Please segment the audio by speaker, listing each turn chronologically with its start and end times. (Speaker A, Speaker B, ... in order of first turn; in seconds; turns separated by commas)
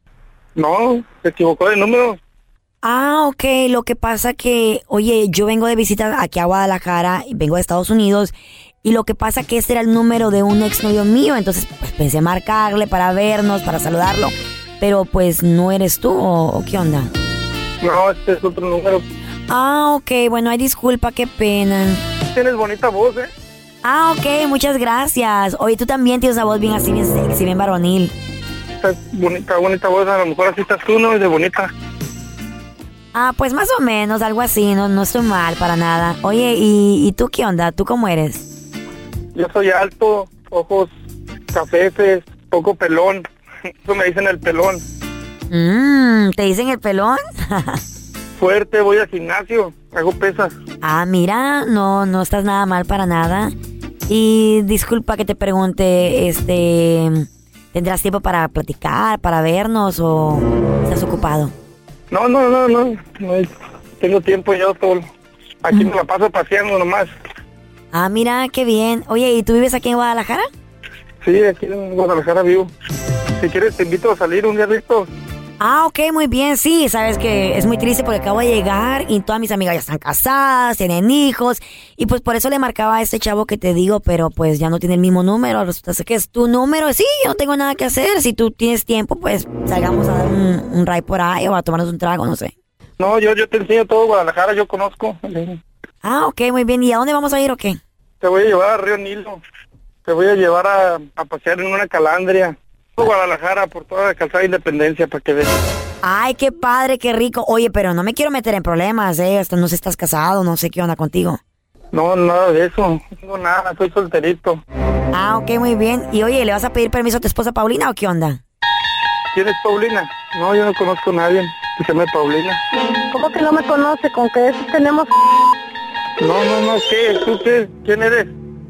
Speaker A: 0.6-2.2, Speaker B: 2.8-17.1, Speaker A: 17.8-19.0, Speaker B: 19.5-22.0, Speaker A: 22.3-23.3, Speaker B: 23.8-28.1, Speaker A: 28.8-31.7, Speaker B: 33.1-38.5, Speaker A: 39.4-40.9, Speaker A: 41.5-43.2, Speaker A: 43.9-44.8, Speaker B: 45.5-47.8, Speaker A: 48.4-50.5, Speaker B: 50.8-53.5, Speaker B: 54.1-61.5, Speaker A: 62.1-65.1, Speaker A: 65.6-67.1, Speaker B: 67.9-70.5, Speaker A: 71.2-72.7, Speaker A: 73.4-75.1, Speaker B: 75.6-92.5, Speaker A: 93.0-95.6, Speaker B: 96.0-97.8, Speaker A: 98.2-99.4, Speaker A: 100.0-105.5, Speaker B: 106.0-111.4, Speaker A: 111.9-114.6, Speaker B: 115.1-118.4, Speaker A: 119.3-122.6, Speaker C: 123.1-125.1, Speaker A: 126.2-128.3